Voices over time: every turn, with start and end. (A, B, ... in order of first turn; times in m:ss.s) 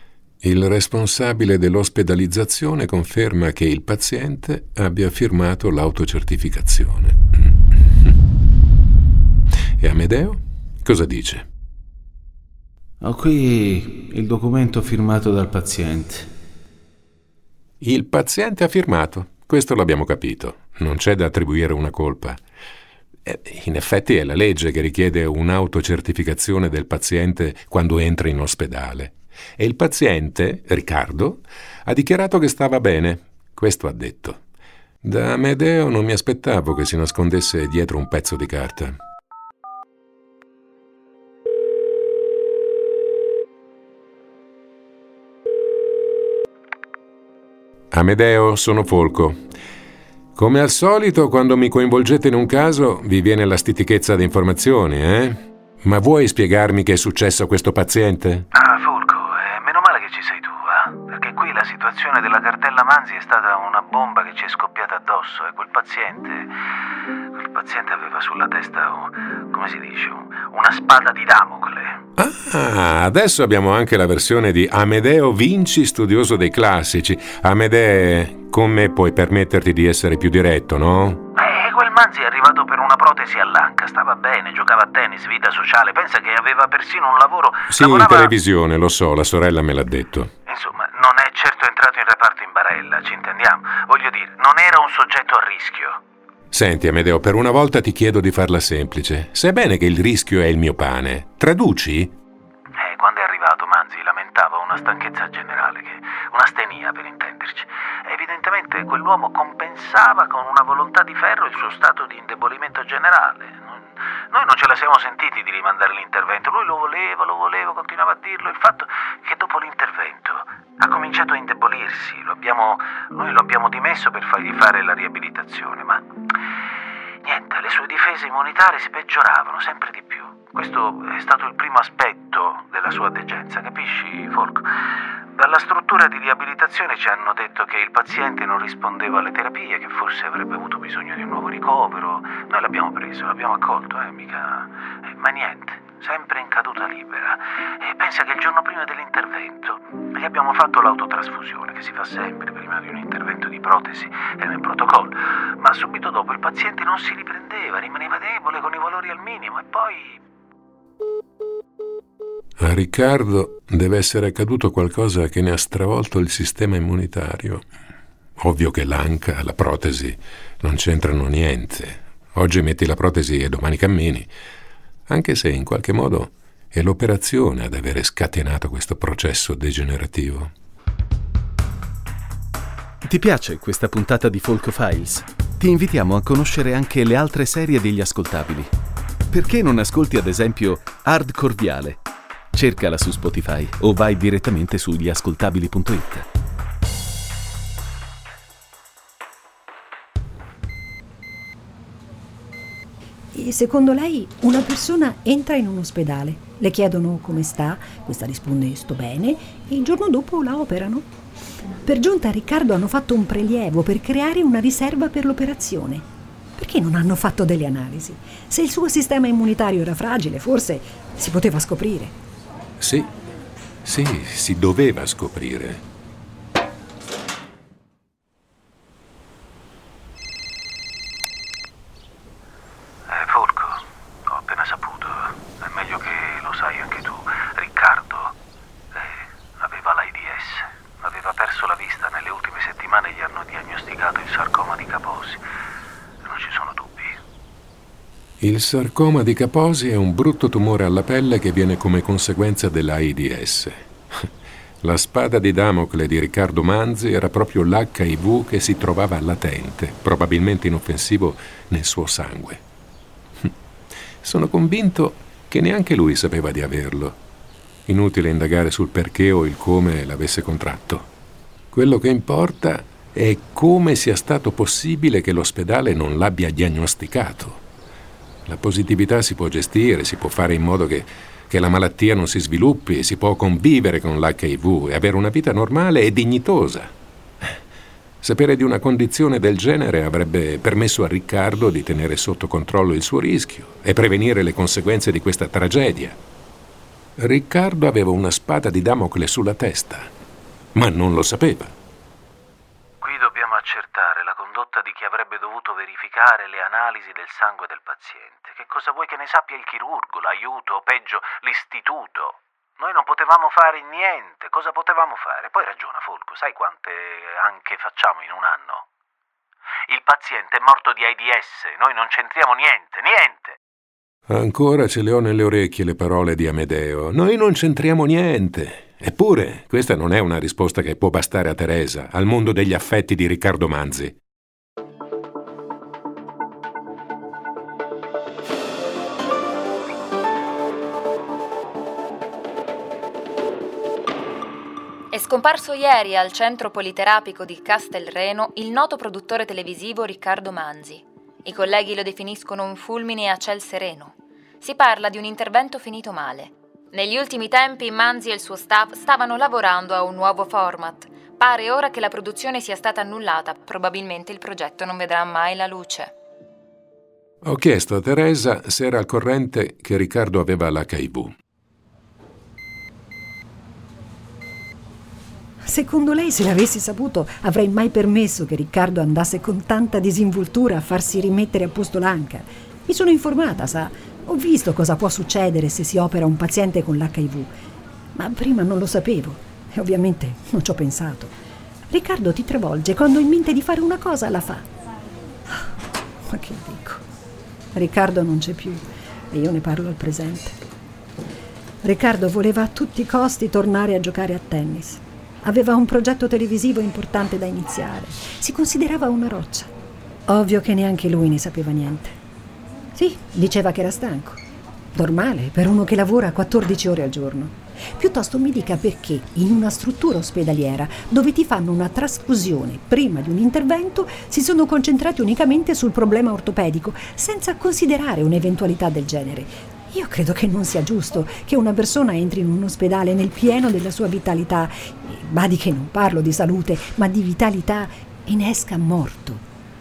0:00.4-0:08.2 A
0:09.8-0:11.5 A
0:13.0-0:16.3 B
0:17.8-0:22.4 A
0:23.2-0:34.4 A
0:35.0-0:39.0 A
0:47.9-0:49.4 A
0:50.4-0:58.5 A
0:58.5-1:06.5 C
1:07.3-1:12.0 C
1:12.2-1:21.2 A
1:21.4-1:28.3 C
1:27.7-1:30.3 A
1:30.5-1:36.0 C
1:36.5-1:42.2 A
1:42.8-2:06.1 C
2:07.2-2:14.7 C
2:15.3-2:40.2 C
2:42.6-2:47.6 A
2:48.4-2:54.3 A
2:55.1-3:00.5 A
3:03.0-3:08.7 B
3:09.3-3:12.0 B
3:12.5-3:16.3 B
3:23.3-3:31.1 D
3:31.8-3:36.1 D
3:36.6-3:42.2 D
3:42.8-3:43.1 A
3:43.8-3:45.8 A
3:53.1-3:58.4 C
3:58.9-4:05.4 C
4:06.2-4:07.2 C
4:08.4-4:14.3 A
4:14.8-4:22.6 A
4:24.2-4:27.2 A
4:27.9-4:31.1 A
4:31.7-4:37.6 A
4:38.5-4:46.9 A
4:48.2-4:56.2 A
4:57.2-5:00.1 A
5:00.7-5:01.8 A
5:03.0-5:18.8 C
5:19.9-5:23.6 C
5:24.3-5:34.2 A
5:45.1-6:06.1 E
6:07.4-6:11.3 A
6:15.6-6:27.5 D
6:28.2-6:31.4 D
6:31.9-6:34.7 D
6:36.3-6:37.0 D
6:37.7-6:40.6 D
6:41.8-6:49.7 D
6:50.3-6:52.2 D
6:53.0-6:54.4 D
6:54.9-7:19.4 D